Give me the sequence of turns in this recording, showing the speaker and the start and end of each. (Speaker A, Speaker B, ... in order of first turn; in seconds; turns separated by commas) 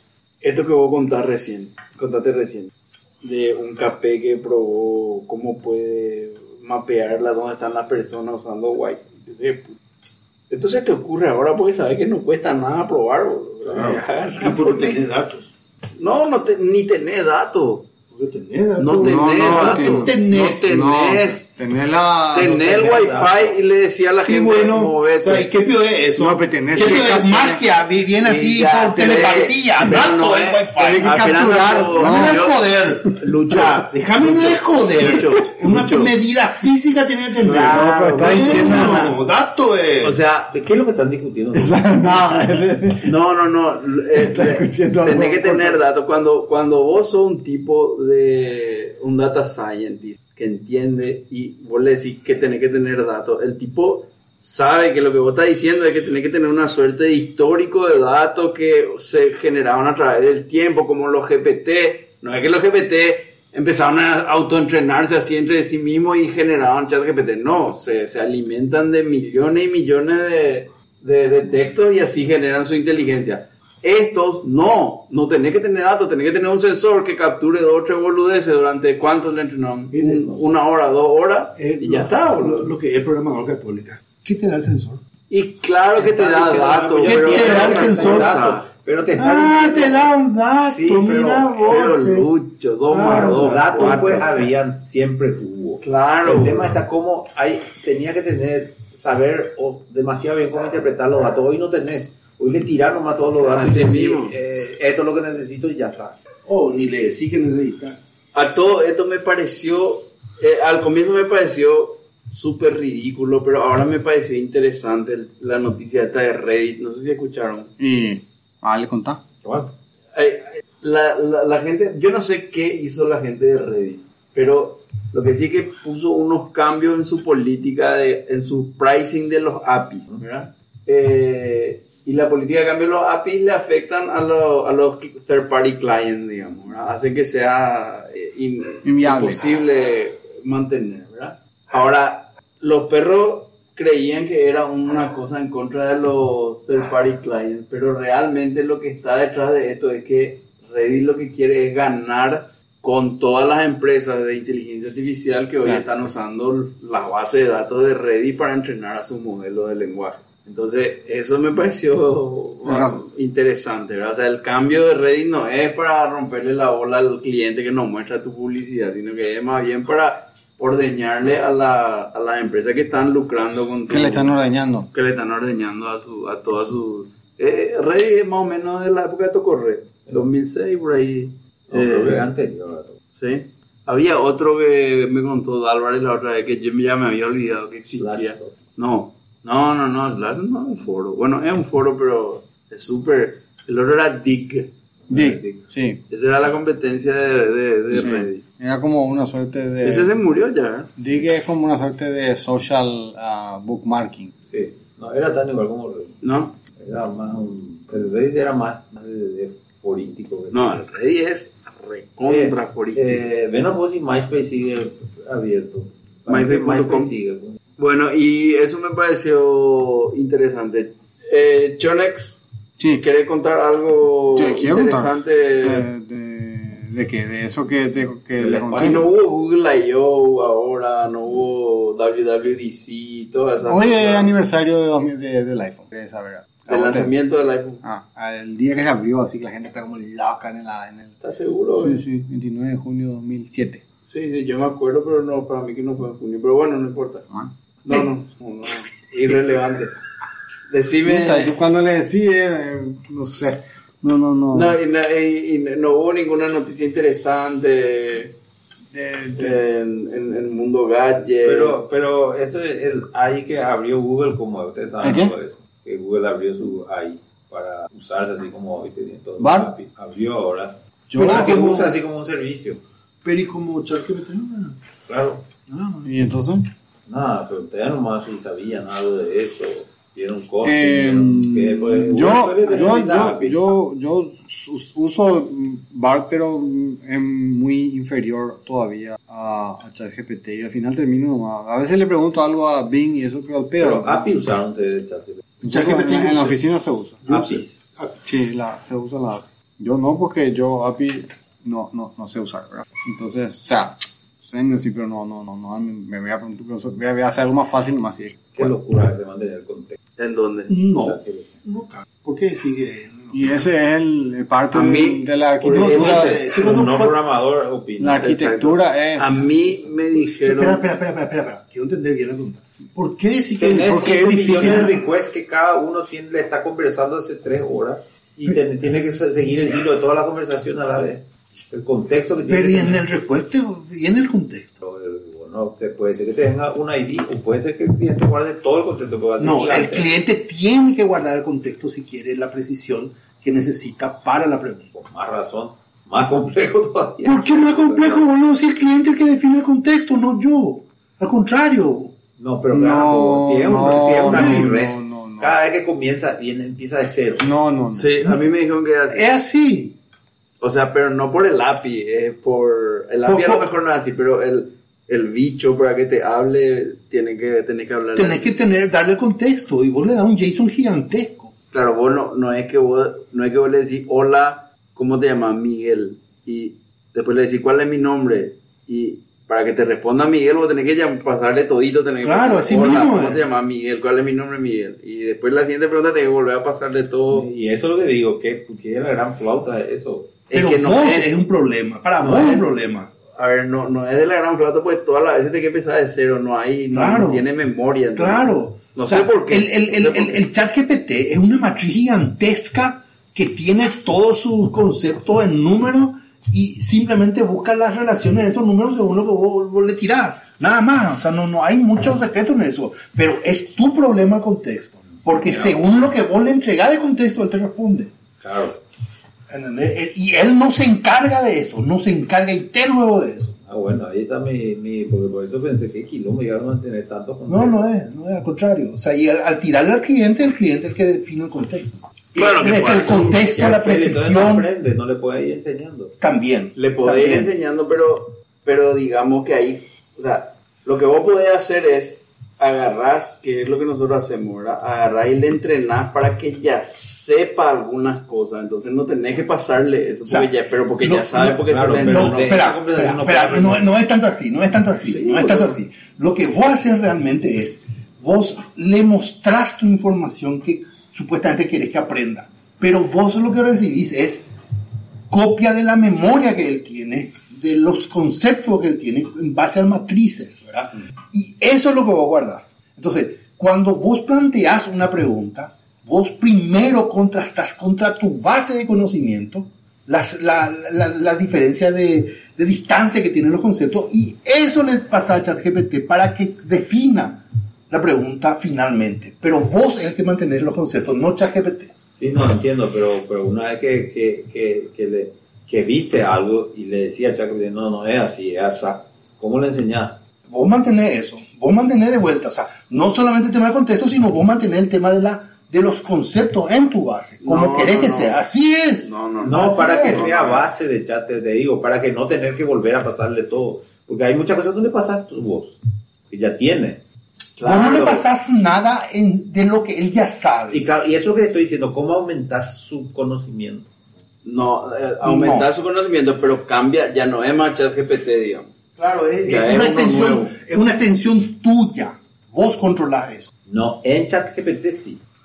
Speaker A: 0.4-2.7, Speaker A: 3.2-9.8, Speaker A: 10.5-15.0, Speaker B: 13.7-15.5, Speaker A: 16.0-17.9, Speaker B: 18.1-20.7, Speaker A: 18.8-21.5, Speaker C: 19.0-22.7, Speaker A: 22.3-25.5, Speaker D: 22.4-23.6, Speaker B: 24.2-40.2, Speaker C: 26.2-27.6, Speaker A: 26.8-27.1, Speaker A: 28.2-36.1, Speaker C: 30.8-32.4, Speaker A: 37.4-39.2, Speaker C: 37.5-39.1, Speaker A: 40.0-40.5, Speaker D: 40.5-42.5, Speaker C: 41.5-43.1, Speaker A: 43.0-82.7, Speaker C: 44.1-45.8, Speaker B: 79.9-80.5, Speaker B: 81.5-85.0, Speaker A: 85.3-88.7, Speaker D: 86.0-91.3, Speaker B: 87.0-88.4, Speaker B: 89.2-92.3, Speaker A: 91.1-94.5, Speaker B: 92.9-94.5, Speaker D: 93.1-106.2, Speaker A: 95.8-96.7, Speaker A: 103.4-104.3, Speaker B: 106.5-108.0, Speaker A: 108.3-117.7, Speaker C: 117.8-119.2, Speaker D: 119.4-119.7, Speaker A: 120.1-174.3, Speaker C: 138.8-139.4, Speaker C: 162.6-163.0, Speaker C: 173.9-174.9, Speaker A: 174.9-182.2, Speaker D: 181.7-183.0, Speaker A: 183.1-194.7, Speaker D: 188.0-188.5, Speaker D: 195.1-195.7, Speaker C: 195.1-196.0, Speaker A: 196.1-198.4, Speaker C: 197.9-200.1, Speaker A: 199.8-200.9, Speaker C: 201.0-204.3, Speaker D: 204.5-206.2, Speaker A: 206.2-206.5, Speaker D: 206.7-210.8, Speaker A: 210.5-213.2, Speaker D: 212.2-217.6, Speaker A: 216.3-217.1, Speaker A: 217.8-225.9, Speaker C: 224.3-229.0, Speaker D: 228.4-229.1, Speaker A: 228.8-234.3, Speaker C: 233.7-237.1, Speaker A: 236.7-237.8, Speaker C: 237.8-241.2, Speaker A: 241.2-242.0, Speaker C: 241.8-243.8, Speaker A: 244.1-247.3, Speaker A: 247.8-249.9, Speaker A: 250.7-251.5, Speaker C: 251.0-254.8, Speaker A: 254.5-258.3, Speaker C: 258.9-259.6, Speaker A: 259.3-261.8, Speaker D: 261.4-272.8, Speaker C: 265.0-265.3, Speaker C: 269.4-269.7, Speaker C: 271.1-271.9, Speaker B: 271.2-271.8, Speaker B: 273.2-274.8, Speaker D: 275.1-275.4, Speaker B: 275.7-276.1, Speaker C: 276.0-276.6, Speaker D: 277.1-283.6, Speaker C: 280.6-294.3, Speaker D: 293.8-295.4, Speaker B: 295.6-296.6, Speaker C: 295.6-297.2, Speaker B: 297.2-298.2, Speaker D: 297.3-297.7, Speaker C: 298.2-308.7, Speaker D: 308.6-310.0, Speaker A: 310.2-310.8, Speaker B: 310.7-313.5, Speaker D: 310.9-311.5, Speaker C: 313.3-316.4, Speaker A: 314.7-316.2, Speaker B: 315.7-317.2, Speaker D: 315.9-318.3, Speaker C: 318.0-319.8, Speaker A: 318.2-320.9, Speaker B: 320.1-324.7, Speaker D: 323.6-333.0, Speaker C: 323.7-324.9, Speaker B: 332.5-334.8, Speaker D: 334.8-340.1, Speaker B: 339.4-344.9, Speaker D: 344.9-348.2, Speaker B: 347.2-352.1, Speaker D: 352.4-357.5, Speaker C: 352.7-355.5, Speaker B: 354.3-354.6, Speaker C: 357.4-358.1, Speaker A: 357.9-359.3, Speaker B: 359.1-359.9, Speaker A: 360.6-368.5, Speaker B: 363.2-363.7, Speaker B: 368.1-371.5, Speaker A: 371.7-387.5, Speaker B: 382.2-383.4, Speaker D: 387.3-390.3, Speaker A: 390.5-391.4, Speaker B: 390.5-393.1, Speaker A: 392.2-392.7, Speaker A: 393.3-400.4, Speaker B: 396.9-397.4, Speaker B: 398.1-418.1, Speaker D: 415.2-415.8, Speaker D: 418.4-418.8, Speaker B: 419.5-423.5, Speaker D: 423.7-427.8, Speaker B: 427.5-434.7, Speaker A: 432.4-433.4, Speaker D: 432.9-436.1, Speaker B: 436.2-437.5, Speaker A: 436.8-452.6, Speaker B: 450.3-464.5, Speaker D: 451.7-453.9, Speaker A: 455.0-455.8, Speaker B: 465.3-491.9, Speaker D: 492.1-500.2, Speaker B: 500.5-510.3, Speaker A: 507.4-508.4, Speaker A: 509.0-510.7, Speaker D: 509.4-515.8, Speaker D: 516.3-517.0, Speaker A: 517.6-518.3, Speaker B: 517.6-520.9, Speaker D: 520.7-523.9, Speaker A: 524.4-528.7, Speaker B: 525.2-525.7, Speaker B: 529.0-533.5, Speaker A: 529.4-530.6, Speaker D: 533.7-535.2